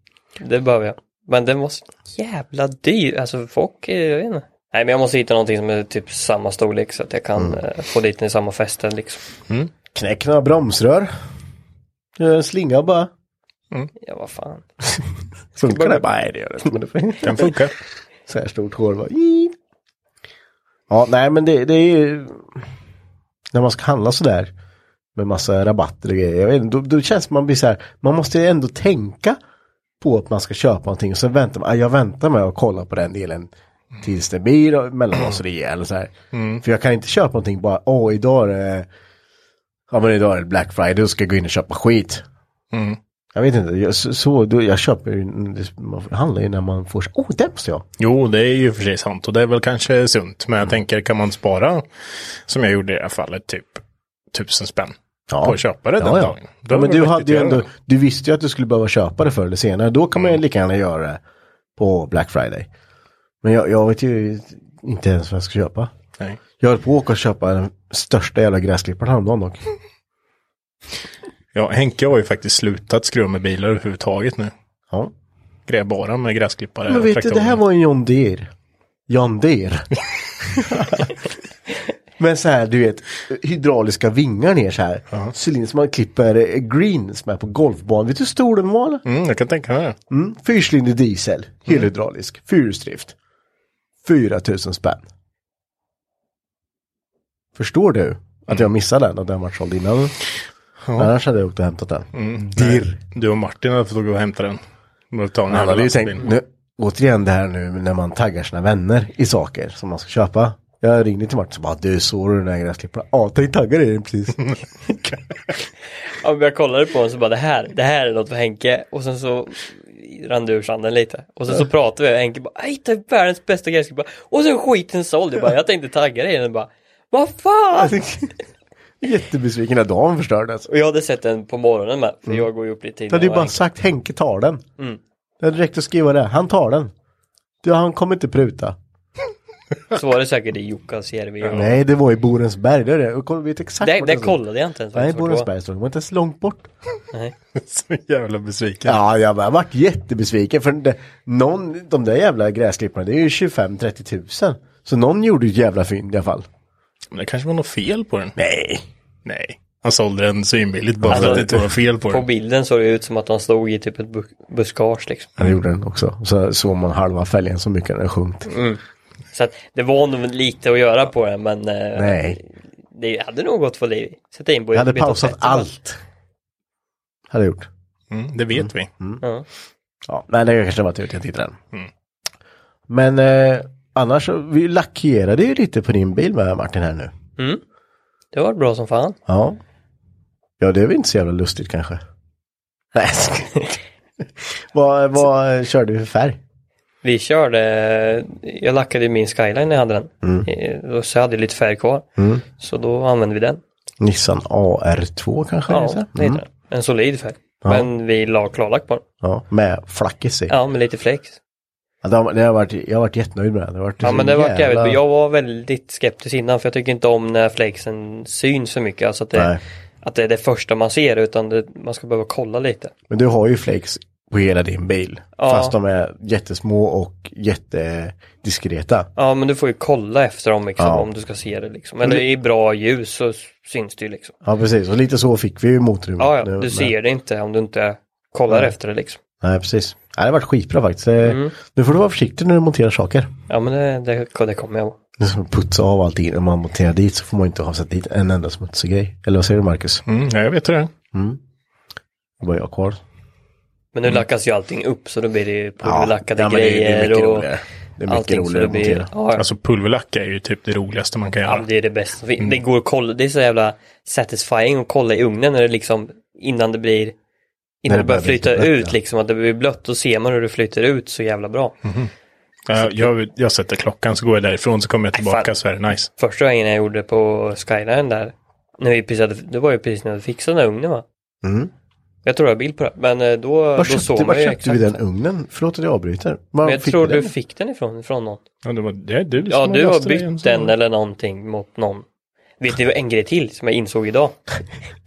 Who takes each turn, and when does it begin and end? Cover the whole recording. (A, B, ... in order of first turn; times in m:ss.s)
0:00.4-0:09.2 A
0:09.9-0:11.1 B
0:12.2-0:13.1 B
0:14.0-0:14.6 A
0:15.6-0:17.6 B
0:15.7-0:16.0 A
0:17.2-0:17.8 C
0:18.3-0:19.6 B
0:20.9-0:22.6 B
0:23.5-0:24.5 B
0:25.2-0:29.4 B
0:30.0-0:33.5 B
0:34.0-0:38.9 B
0:36.3-0:36.6 C
0:39.9-0:42.2 B
0:42.7-0:43.0 C
0:43.4-0:47.9 B
0:48.0-0:51.9 C
0:52.5-0:53.8 C
0:54.3-0:57.7 C
0:55.3-1:01.2 B
1:00.2-1:00.4 C
1:01.8-1:02.7 B
1:03.4-1:05.9 B
1:06.6-1:09.6 B
1:11.5-1:14.5 C
1:15.7-1:17.6 C
1:16.9-1:18.5 B
1:19.1-1:21.1 B
1:22.2-1:29.0 B
1:29.0-1:30.0 C
1:30.1-1:33.1 B
1:34.0-1:35.1 B
1:37.6-1:40.2 B
1:40.8-1:41.1 C
1:41.0-1:43.0 B
1:42.1-1:44.6 C
1:45.1-1:46.3 C
1:45.5-1:54.5 B
1:56.1-2:08.0 A
2:07.7-2:08.3 B
2:09.0-2:10.7 B
2:10.7-2:13.6 A
2:13.1-2:14.6 B
2:15.4-2:16.9 B
2:17.6-2:18.8 B
2:19.9-2:21.8 A
2:21.5-2:24.4 B
2:23.8-2:25.5 A
2:24.9-2:26.7 B
2:27.6-2:29.0 C
2:28.8-2:36.5 B
2:37.1-2:38.4 C
2:38.4-2:38.8 B
2:39.2-2:42.2 C
2:41.0-2:41.7 B
2:41.1-2:41.5 A
2:42.1-2:45.3 A
2:45.4-2:48.5 B
2:48.5-2:48.8 A
2:49.3-2:55.7 A
2:52.0-2:52.4 B
2:54.7-2:56.0 B
2:57.3-2:57.7 B
2:58.1-2:58.9 C
2:58.5-2:59.2 B
3:00.1-3:01.6 B
3:02.9-3:07.1 B
3:08.3-3:09.2 A
3:09.3-3:09.6 B
3:10.6-3:12.0 B
3:12.9-3:13.8 B
3:14.4-3:16.4 B
3:17.0-3:22.1 A
3:20.2-3:20.5 B
3:22.2-3:22.4 B
3:22.6-3:23.6 A
3:24.0-3:26.4 B
3:25.7-3:29.0 A
3:27.6-3:27.9 B
3:29.2-3:30.5 B
3:30.5-3:31.4 A
3:32.0-3:35.0 B
3:34.0-3:42.9 A
3:39.3-3:39.6 B
3:43.1-3:49.1 B
3:45.4-3:45.8 A
3:49.2-3:54.4 A
3:50.8-3:51.1 B
3:54.4-3:56.9 B
3:56.2-3:59.2 A
3:59.4-4:03.3 B
4:01.2-4:01.5 A
4:03.5-4:05.0 A
4:05.2-4:10.0 B
4:10.1-4:10.9 C
4:11.1-4:11.4 B
4:12.4-4:13.0 B
4:14.0-4:17.5 A
4:15.8-4:19.1 B
4:18.1-4:19.4 A
4:19.4-4:21.7 C
4:21.5-4:27.2 A
4:27.8-4:31.8 A
4:27.9-4:29.0 B
4:31.8-4:32.1 C
4:32.7-4:36.1 C
4:35.2-4:35.5 A
4:36.2-4:41.0 A
4:41.4-4:41.7 B
4:42.2-4:45.0 A
4:43.8-4:47.3 B
4:46.6-4:48.4 A
4:48.6-4:50.7 C
4:49.5-4:52.0 A
4:52.6-4:54.4 A